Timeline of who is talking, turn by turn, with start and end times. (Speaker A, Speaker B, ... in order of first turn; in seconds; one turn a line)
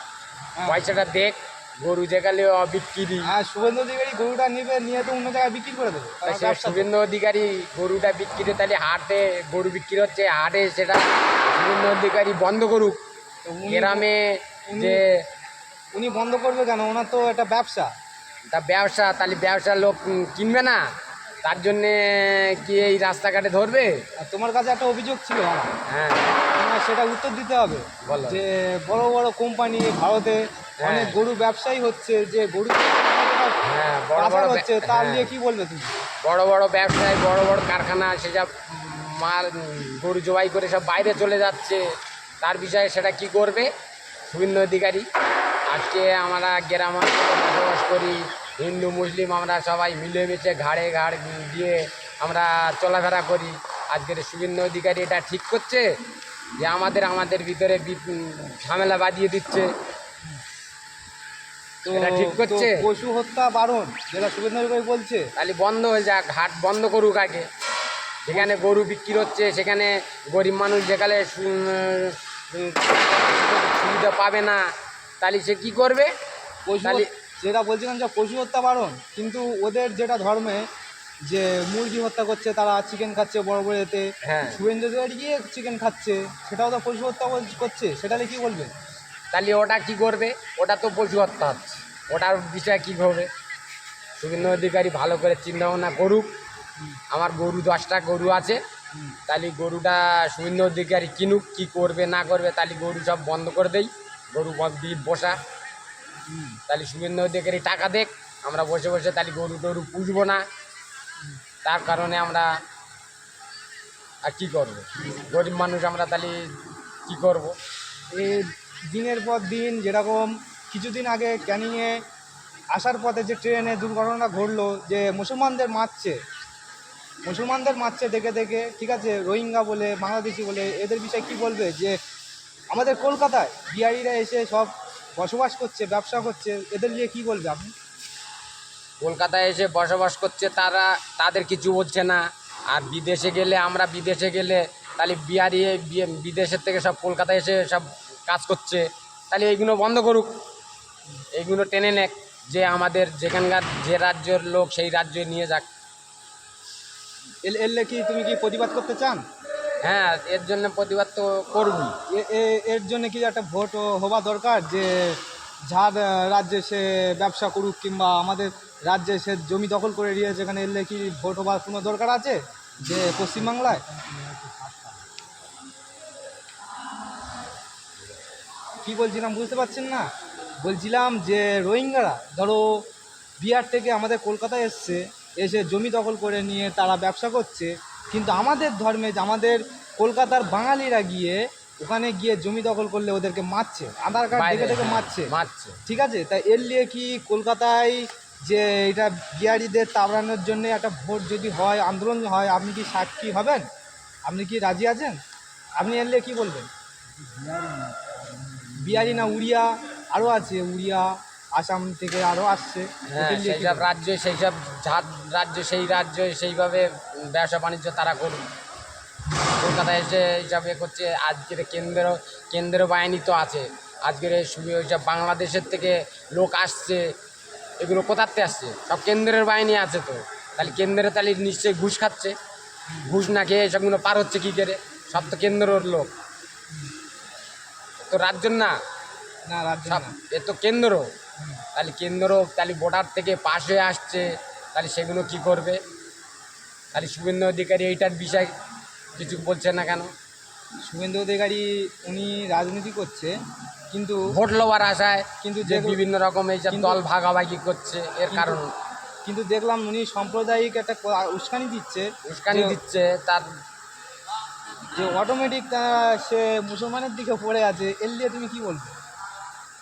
Speaker A: 0.6-0.8
Speaker B: 0.6-3.3
Speaker A: 3.2-6.9
Speaker B: 6.2-13.0
Speaker A: 13.4-14.1
Speaker B: 13.6-15.2
Speaker A: 14.7-15.0
Speaker A: 15.9-17.9
Speaker B: 18.5-20.8
Speaker B: 21.4-24.0
Speaker A: 24.2-25.7
Speaker B: 25.9-26.4
Speaker A: 26.5-33.6
Speaker B: 28.0-28.4
Speaker B: 30.8-31.2
Speaker B: 33.6-35.3
Speaker A: 34.1-35.9
Speaker B: 36.2-41.9
Speaker B: 42.4-43.7
Speaker B: 44.3-45.1
Speaker B: 45.7-55.9
Speaker B: 56.6-59.7
Speaker A: 61.8-65.3
Speaker B: 61.9-62.9
Speaker B: 65.3-67.5
Speaker B: 68.2-74.6
Speaker B: 75.2-76.1
Speaker A: 76.7-80.7
Speaker A: 81.2-88.7
Speaker B: 84.2-84.6
Speaker B: 89.3-93.3
Speaker B: 94.2-96.3
Speaker B: 97.1-98.6
Speaker B: 99.3-105.4
Speaker A: 106.3-106.6
Speaker B: 106.7-110.4
Speaker B: 111.6-112.5
Speaker B: 114.2-116.5
Speaker B: 117.1-117.5
Speaker A: 118.1-122.0
Speaker A: 122.7-126.2
Speaker A: 127.2-132.0
Speaker A: 132.7-137.7
Speaker B: 139.0-150.3
Speaker B: 151.3-155.7
Speaker A: 157.4-159.2
Speaker B: 159.8-162.0
Speaker A: 162.1-173.8
Speaker A: 178.8-180.1
Speaker A: 180.6-182.8
Speaker A: 183.4-195.3
Speaker B: 194.3-195.8
Speaker A: 195.8-203.7
Speaker A: 204.3-205.2
Speaker A: 205.8-206.7
Speaker A: 208.8-213.9
Speaker B: 213.1-218.4
Speaker B: 219.6-227.1
Speaker B: 227.8-232.3
Speaker B: 233.0-236.1
Speaker B: 238.1-238.8
Speaker A: 239.4-240.2
Speaker B: 239.9-241.1
Speaker B: 241.7-245.8
Speaker B: 246.9-248.5
Speaker B: 249.2-250.1
Speaker A: 250.8-253.3
Speaker A: 253.9-254.2
Speaker B: 254.3-258.7
Speaker A: 255.4-256.0
Speaker A: 256.7-257.0
Speaker A: 258.3-258.6
Speaker A: 259.2-262.8
Speaker B: 262.2-263.4
Speaker A: 264.9-268.9